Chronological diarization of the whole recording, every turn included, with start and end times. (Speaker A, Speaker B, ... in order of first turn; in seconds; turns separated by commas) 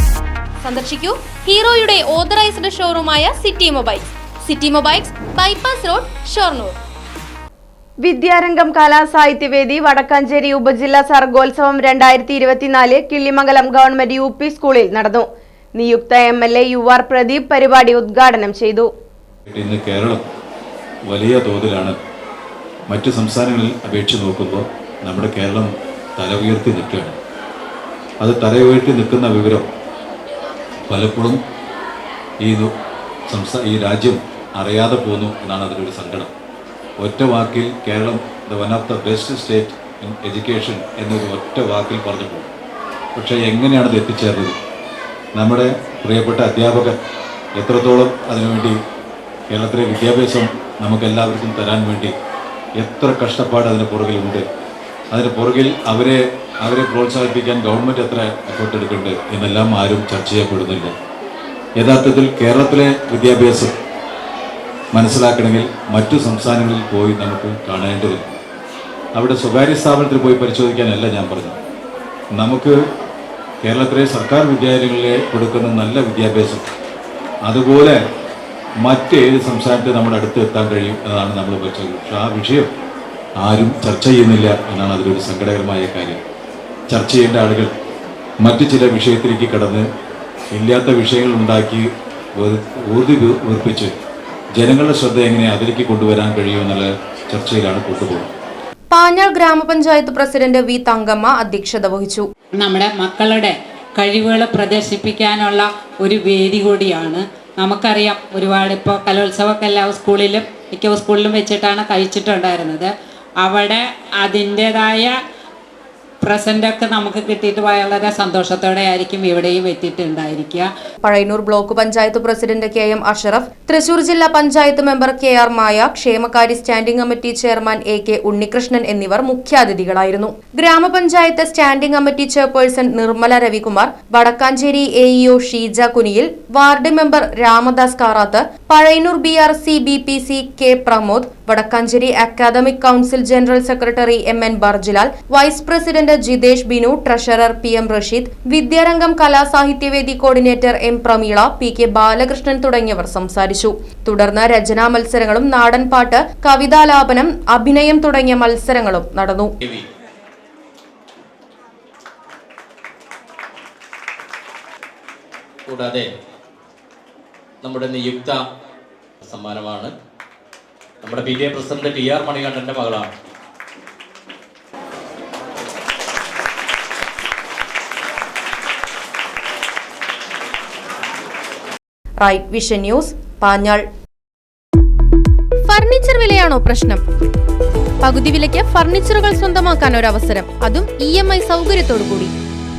Speaker A: 0.6-6.8, Speaker B: 8.0-18.9, Speaker C: 19.5-20.2, Speaker C: 21.1-22.0, Speaker C: 22.9-27.2, Speaker C: 28.2-29.7, Speaker C: 30.9-31.4, Speaker C: 32.4-32.7, Speaker C: 33.3-36.3, Speaker C: 37.0-42.5, Speaker C: 43.2-44.6, Speaker C: 45.4-47.0, Speaker C: 47.6-48.8, Speaker C: 49.5-52.1, Speaker C: 52.8-54.5, Speaker C: 55.1-60.9, Speaker C: 61.8-63.7, Speaker C: 64.9-68.2, Speaker C: 69.2-71.6, Speaker C: 72.4-72.8, Speaker C: 73.6-76.6, Speaker C: 77.5-78.0, Speaker C: 78.8-82.7, Speaker C: 83.4-86.2, Speaker C: 86.9-87.7, Speaker C: 88.4-89.8, Speaker C: 90.5-93.9, Speaker C: 94.6-98.3, Speaker A: 98.9-102.3, Speaker D: 102.6-115.1, Speaker D: 116.2-120.7, Speaker A: 121.0-159.5, Speaker E: 165.7-166.1, Speaker E: 167.6-168.4, Speaker E: 169.2-169.9, Speaker E: 171.0-173.1, Speaker A: 182.2-183.8, Speaker A: 185.7-187.0, Speaker A: 188.0-192.3